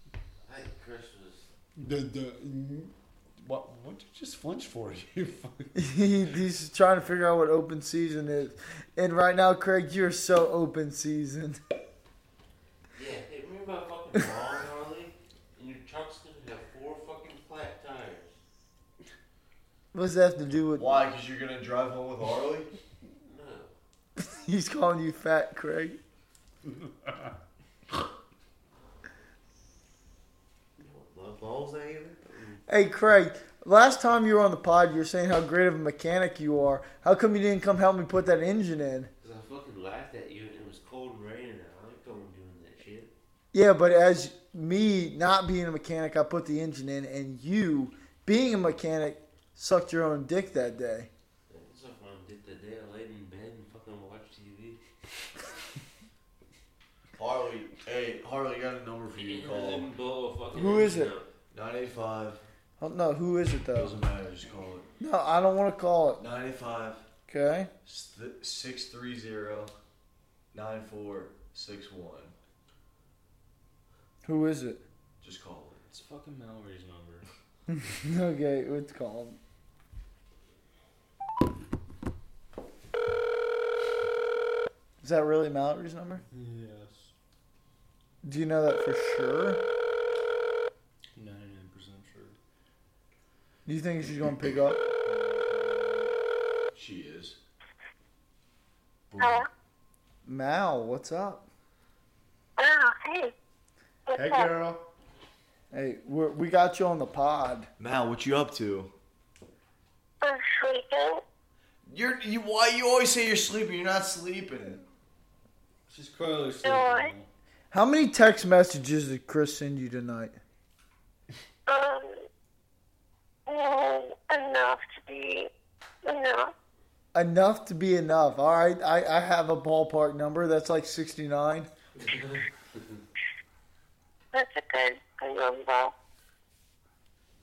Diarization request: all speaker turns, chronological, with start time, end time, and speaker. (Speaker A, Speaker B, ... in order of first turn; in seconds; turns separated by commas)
Speaker A: 0.5-1.5, Speaker B: 1.8-5.7, Speaker C: 5.7-11.6, Speaker A: 12.9-18.3, Speaker C: 19.9-21.0, Speaker D: 20.8-22.7, Speaker A: 23.2-23.7, Speaker C: 24.1-26.0, Speaker B: 26.7-27.2, Speaker A: 30.8-32.6, Speaker C: 32.7-39.1, Speaker A: 39.2-43.1, Speaker C: 43.5-51.1, Speaker A: 51.5-54.8, Speaker D: 57.2-59.9, Speaker A: 59.1-61.3, Speaker C: 60.5-61.1, Speaker D: 61.5-62.4, Speaker C: 62.8-64.0, Speaker D: 63.7-64.8, Speaker C: 65.0-66.2, Speaker D: 66.2-67.0, Speaker C: 67.3-67.7, Speaker D: 67.8-69.7, Speaker D: 70.5-72.3, Speaker C: 74.2-74.8, Speaker D: 75.2-76.0, Speaker E: 75.9-77.3, Speaker C: 77.7-79.4, Speaker C: 85.0-86.2, Speaker E: 86.3-87.1, Speaker C: 88.2-89.6, Speaker E: 91.1-92.4, Speaker C: 93.6-94.8, Speaker E: 95.0-96.1, Speaker D: 96.7-97.4, Speaker D: 99.1-99.5, Speaker F: 99.2-99.5, Speaker C: 100.2-101.4, Speaker F: 102.6-103.3, Speaker F: 104.1-104.5, Speaker B: 104.1-104.8, Speaker C: 105.7-107.7, Speaker D: 107.8-108.9, Speaker F: 110.2-111.2, Speaker D: 111.9-114.8, Speaker E: 115.9-117.3, Speaker F: 116.6-117.1, Speaker C: 117.7-120.4, Speaker F: 121.7-122.2, Speaker F: 123.5-125.5, Speaker F: 126.0-126.5, Speaker C: 127.1-131.7, Speaker A: 132.0-132.8, Speaker F: 134.3-135.9